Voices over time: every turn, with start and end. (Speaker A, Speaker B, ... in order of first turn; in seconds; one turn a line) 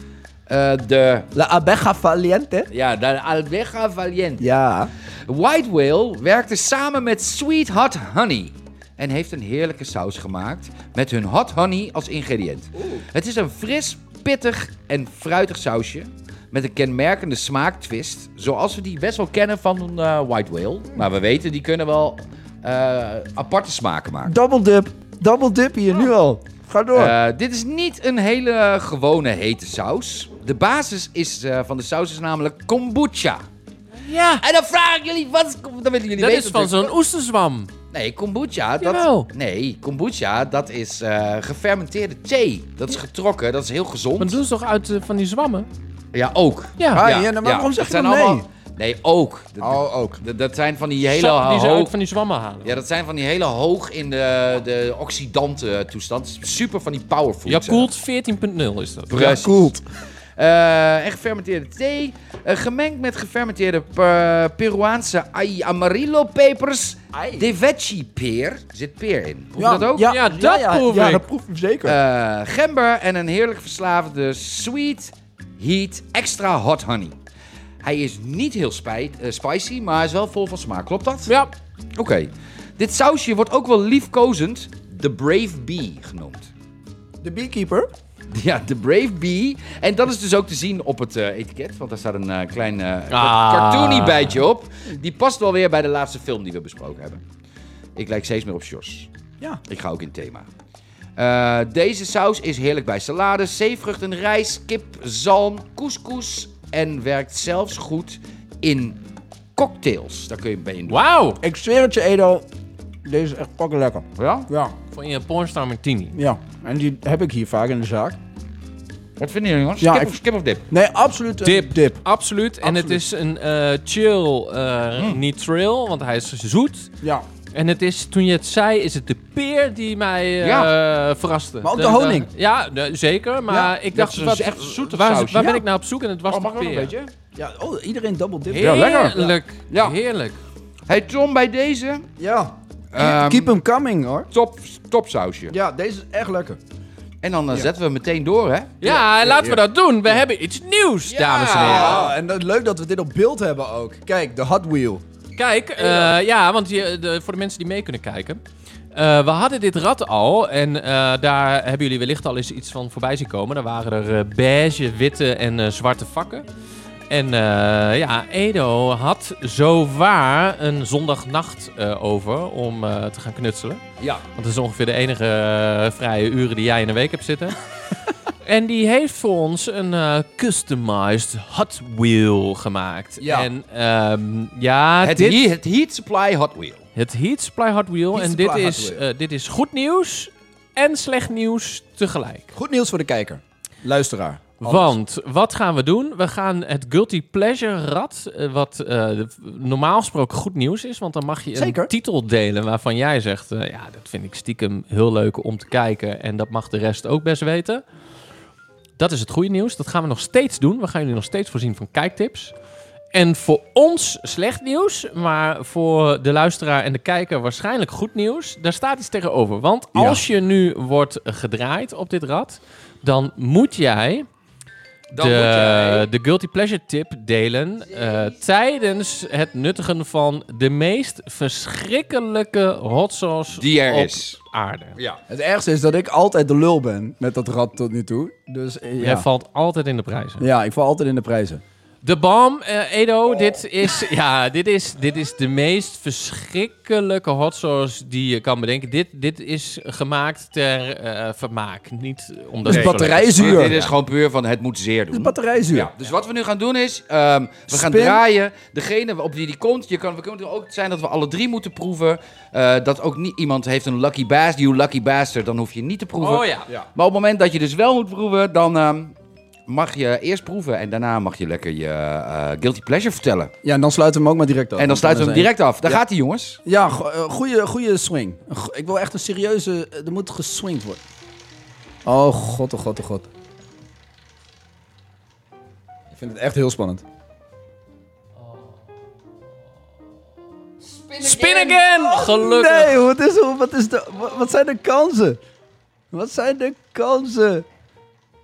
Speaker A: 0.5-1.3
Speaker B: 1.3-2.7
Speaker A: 2.7-4.5
Speaker B: 4.4-4.9
Speaker A: 5.2-24.3
Speaker B: 12.8-13.0
Speaker B: 24.2-27.1
Speaker A: 26.9-33.4
Speaker C: 34.0-34.4
Speaker A: 34.4-36.9
Speaker C: 36.2-37.7
Speaker A: 37.9-44.4
Speaker C: 38.8-39.3
Speaker C: 44.2-45.7
Speaker A: 46.1-51.9
Speaker C: 46.8-47.0
Speaker B: 46.9-48.5
Speaker B: 49.6-50.2
Speaker C: 51.1-52.8
Speaker A: 52.6-57.9
Speaker C: 57.5-59.4
Speaker A: 59.1-59.7
Speaker B: 59.1-59.8
Speaker A: 60.4-70.1
Speaker B: 67.1-67.5
Speaker B: 69.6-72.0
Speaker C: 70.0-71.2
Speaker A: 71.8-77.1
Speaker A: 77.8-81.3
Speaker A: 82.0-86.5
Speaker B: 87.2-87.9
Speaker A: 88.3-97.2
Speaker C: 93.1-94.4
Speaker A: 98.0-99.1
Speaker A: 99.7-100.5
Speaker A: 101.2-109.0
Speaker A: 109.5-111.0
Speaker C: 110.9-111.4
Speaker B: 111.4-112.5
Speaker B: 113.0-114.7
Speaker A: 114.2-114.5
Speaker C: 114.9-116.2
Speaker B: 116.1-118.2
Speaker A: 119.2-120.6
Speaker B: 119.8-120.1
Speaker B: 120.7-122.0
Speaker C: 121.4-126.9
Speaker B: 122.6-123.0
Speaker C: 127.5-136.9
Speaker A: 130.4-130.7
Speaker B: 131.6-132.3
Speaker B: 133.5-133.7
Speaker A: 133.9-135.6
Speaker B: 135.3-135.6
Speaker A: 136.3-137.1
Speaker B: 137.3-139.2
Speaker A: 138.5-140.0
Speaker C: 138.6-140.4
Speaker A: 140.9-142.1
Speaker B: 142.2-144.3
Speaker A: 142.9-143.6
Speaker A: 144.3-145.5
Speaker B: 145.5-146.6
Speaker A: 147.2-148.9
Speaker C: 148.8-152.1
Speaker B: 148.8-149.6
Speaker A: 151.1-152.1
Speaker B: 151.6-155.0
Speaker C: 155.3-158.4
Speaker A: 155.8-156.1
Speaker C: 158.9-166.4
Speaker C: 167.1-173.8
Speaker C: 174.3-177.6
Speaker C: 178.4-185.4
Speaker B: 183.2-183.5
Speaker A: 185.0-186.8
Speaker C: 186.9-192.5
Speaker B: 188.1-189.0
Speaker B: 192.5-194.9
Speaker C: 194.6-207.8
Speaker B: 201.5-201.9
Speaker C: 209.0-212.5
Speaker C: 213.1-224.3
Speaker B: 219.9-220.2
Speaker A: 225.1-226.1
Speaker C: 225.2-235.0
Speaker A: 227.8-228.4
Speaker A: 233.6-234.4
Speaker A: 234.9-235.2
Speaker B: 235.3-239.2
Speaker C: 239.0-240.5
Speaker B: 240.4-241.6
Speaker C: 242.0-253.9
Speaker B: 252.6-253.8
Speaker A: 252.7-269.1
Speaker B: 255.1-255.9
Speaker B: 257.7-258.2
Speaker C: 266.2-266.7
Speaker A: 269.7-273.5
Speaker B: 273.6-276.0
Speaker A: 274.8-276.6
Speaker B: 276.6-281.0
Speaker B: 282.0-283.3
Speaker B: 286.1-287.0
Speaker A: 290.8-292.1
Speaker C: 291.2-293.1
Speaker B: 292.1-295.4
Speaker B: 296.1-297.6